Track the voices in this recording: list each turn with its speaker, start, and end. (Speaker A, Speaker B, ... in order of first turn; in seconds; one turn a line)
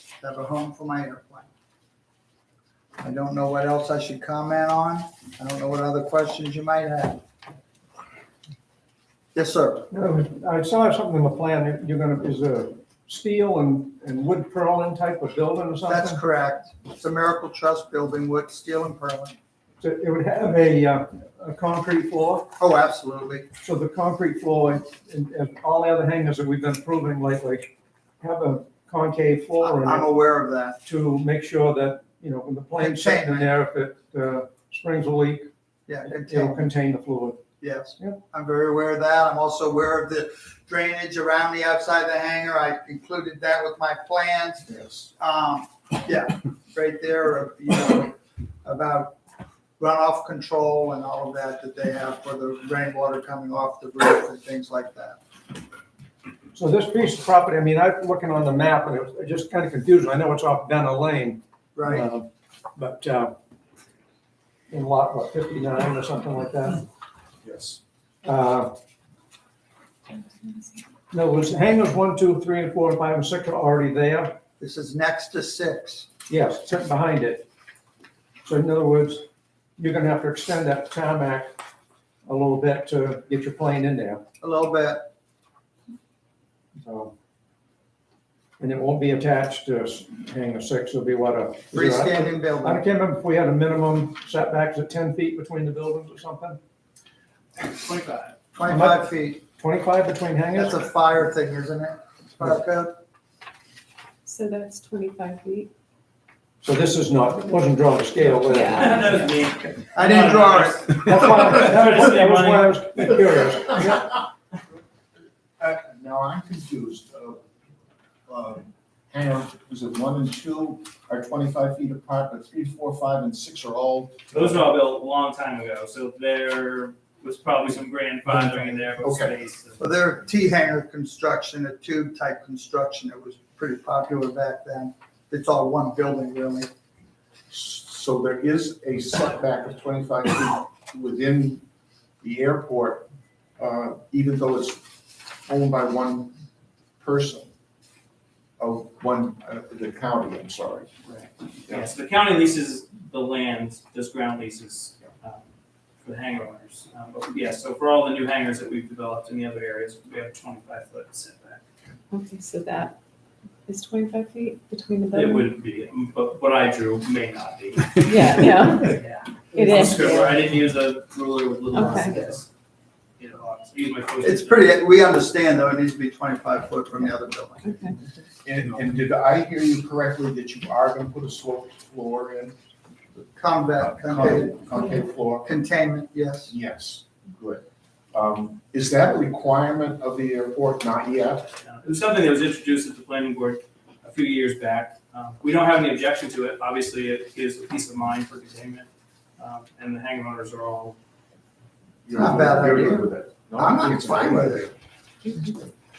Speaker A: 0.2-1.5
Speaker A: 3.0-7.2
Speaker A: 9.3-9.9
Speaker B: 9.9-16.2
Speaker A: 15.9-19.4
Speaker B: 19.8-22.5
Speaker A: 22.6-23.5
Speaker B: 23.6-30.1
Speaker A: 29.6-30.8
Speaker B: 30.8-35.5
Speaker A: 32.8-33.5
Speaker A: 35.9-36.6
Speaker B: 36.0-37.4
Speaker A: 37.6-49.2
Speaker C: 44.7-45.1
Speaker A: 49.8-55.2
Speaker B: 56.5-63.3
Speaker A: 61.7-62.1
Speaker B: 64.7-66.8
Speaker C: 67.4-67.8
Speaker B: 68.2-68.7
Speaker D: 70.1-70.7
Speaker B: 71.1-74.4
Speaker A: 74.6-76.1
Speaker B: 76.3-77.5
Speaker B: 78.4-79.2
Speaker B: 79.8-81.6
Speaker B: 82.2-84.2
Speaker A: 84.4-85.1
Speaker B: 86.8-87.1
Speaker B: 88.6-96.6
Speaker A: 91.7-92.8
Speaker E: 97.8-98.3
Speaker A: 98.5-99.4
Speaker B: 98.7-100.8
Speaker A: 100.5-103.0
Speaker D: 104.2-105.7
Speaker B: 106.6-109.0
Speaker D: 108.5-109.3
Speaker E: 108.7-113.0
Speaker A: 109.9-111.4
Speaker B: 110.9-114.1
Speaker C: 115.6-117.4
Speaker C: 118.3-124.5
Speaker E: 124.3-129.8
Speaker C: 128.3-129.3
Speaker A: 129.8-136.7
Speaker C: 137.5-141.6
Speaker C: 142.2-143.1
Speaker C: 143.6-146.3
Speaker C: 147.0-147.5
Speaker C: 148.6-150.9
Speaker E: 151.1-155.4
Speaker E: 156.0-161.6
Speaker D: 162.1-162.9
Speaker D: 163.7-165.5
Speaker E: 165.1-172.5
Speaker D: 168.1-169.0
Speaker D: 169.5-170.5
Speaker D: 171.7-172.1
Speaker E: 173.2-174.8
Speaker A: 174.2-177.8
Speaker D: 177.6-177.9
Speaker C: 178.4-182.5
Speaker A: 183.3-184.8
Speaker C: 183.8-185.5
Speaker A: 185.4-186.5
Speaker C: 186.5-191.5
Speaker E: 191.6-200.9
Speaker C: 202.0-204.7
Speaker A: 202.1-204.7